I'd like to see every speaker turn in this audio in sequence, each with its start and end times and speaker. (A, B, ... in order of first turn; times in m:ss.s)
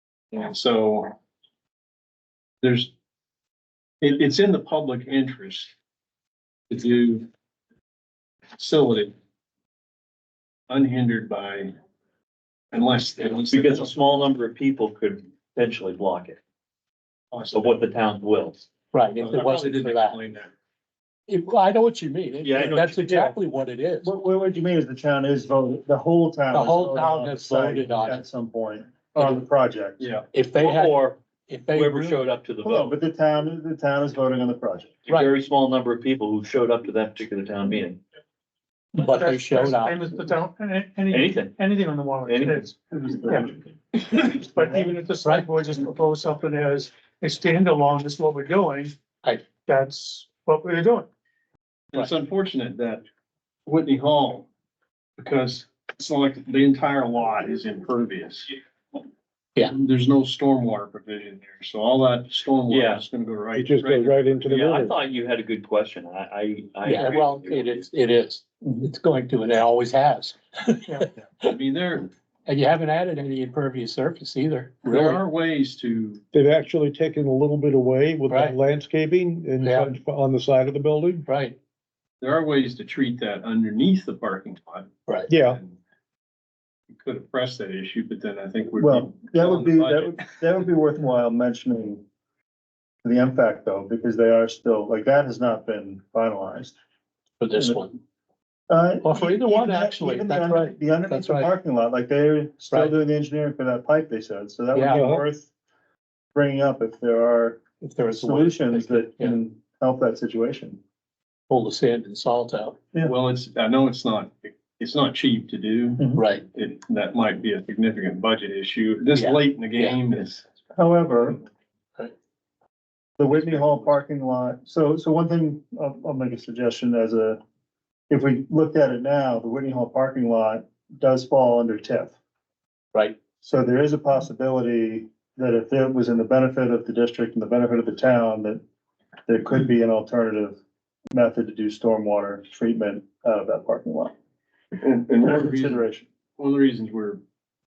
0:00.3-0:01.1 A
0:02.6-0:02.9 A
0:04.0-0:05.7 A
0:06.7-0:07.3 A
0:08.6-0:09.1 A
0:10.7-0:11.8 A
0:12.7-0:13.9 A
0:13.5-0:16.4 B
0:17.3-0:17.9 A
0:17.5-0:18.7 B
0:18.9-0:20.2 C
0:19.2-0:20.5 A
0:21.3-0:24.1 C
0:22.4-0:23.1 B
0:22.6-0:23.4 D
0:24.0-0:30.0 D
0:26.5-0:28.2 C
0:29.2-0:29.4 C
0:30.0-0:30.3 A
0:30.3-0:32.3 C
0:30.6-0:31.2 B
0:31.7-0:33.0 B
0:32.6-0:35.0 D
0:35.1-0:38.0 B
0:39.0-0:49.0 E
0:39.0-0:40.0 C
0:41.1-0:41.6 B
0:42.2-0:43.4 B
0:45.2-0:45.5 C
0:49.6-0:51.1 E
0:51.9-0:53.0 A
0:53.7-0:54.5 A
0:55.2-0:58.6 A
0:59.6-1:04.4 A
1:02.7-1:03.0 B
1:03.5-1:05.0 F
1:04.5-1:07.9 B
1:06.8-1:11.5 C
1:11.4-1:12.1 A
1:12.5-1:15.2 C
1:14.8-1:16.2 A
1:16.3-1:21.3 F
1:18.3-1:18.6 C
1:19.6-1:19.9 C
1:21.2-1:21.6 C
1:22.2-1:25.8 A
1:25.3-1:25.6 F
1:26.9-1:30.6 A
1:28.8-1:32.0 D
1:33.0-1:36.8 D
1:37.4-1:37.9 C
1:37.6-1:37.9 D
1:38.7-1:45.5 D
1:39.0-1:41.5 C
1:42.7-1:43.0 C
1:44.7-1:45.1 C
1:44.9-1:45.3 F
1:46.4-1:50.8 D
1:47.8-1:49.4 C
1:51.5-1:52.8 C
1:53.0-2:00.5 A
1:56.1-1:56.4 C
1:59.2-2:00.0 C
2:00.7-2:01.4 D
2:03.2-2:07.4 D
2:03.3-2:04.0 A
2:08.1-2:12.1 D
2:13.4-2:18.6 D
2:19.3-2:20.6 D
2:21.1-2:24.1 D
2:24.8-2:25.8 A
2:25.2-2:26.1 D
2:26.4-2:27.2 A